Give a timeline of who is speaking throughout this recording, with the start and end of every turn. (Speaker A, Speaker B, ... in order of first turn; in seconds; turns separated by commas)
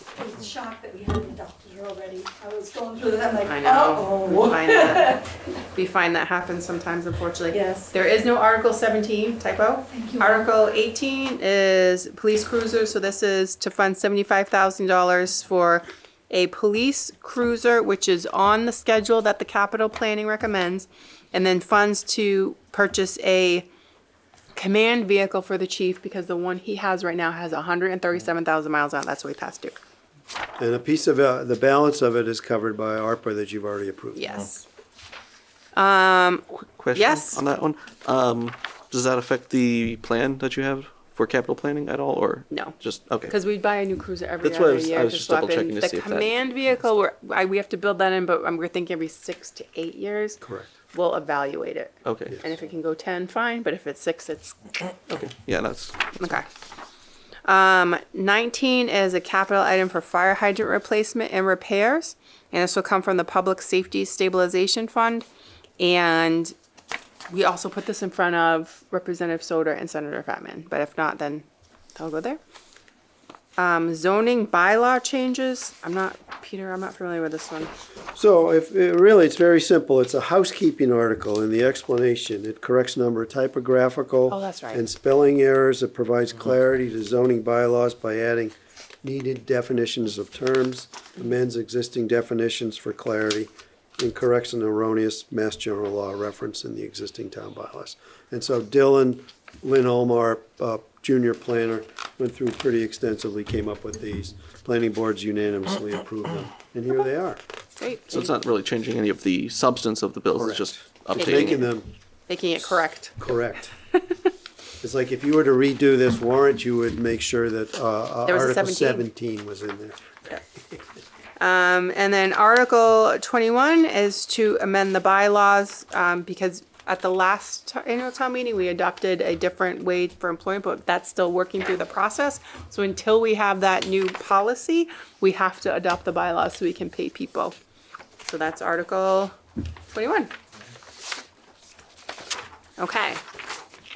Speaker A: 0.1-5.5, Speaker B: 3.4-5.2, Speaker B: 5.7-23.7, Speaker A: 7.5-7.9, Speaker A: 9.8-10.5, Speaker B: 24.5-29.8, Speaker C: 30.6-34.4, Speaker B: 34.1-34.6, Speaker B: 35.7-37.4, Speaker D: 36.5-43.3, Speaker B: 42.5-50.4, Speaker D: 44.4-46.3, Speaker C: 50.4-50.7, Speaker B: 50.9-54.7, Speaker D: 52.0-52.4, Speaker D: 55.1-56.3, Speaker B: 56.2-56.5, Speaker B: 57.4-65.3, Speaker B: 65.8-66.5, Speaker B: 67.3-72.4, Speaker B: 73.6-77.7, Speaker C: 78.1-107.4, Speaker B: 84.3-84.8, Speaker B: 107.8-108.3, Speaker D: 108.1-111.7, Speaker C: 110.4-111.9, Speaker B: 111.2-111.7, Speaker B: 112.3-113.3, Speaker C: 113.2-113.7, Speaker C: 114.8-120.1, Speaker B: 118.2-119.1, Speaker B: 121.4-137.6, Speaker B: 138.2-139.3, Speaker B: 139.9-140.3, Speaker B: 142.8-143.2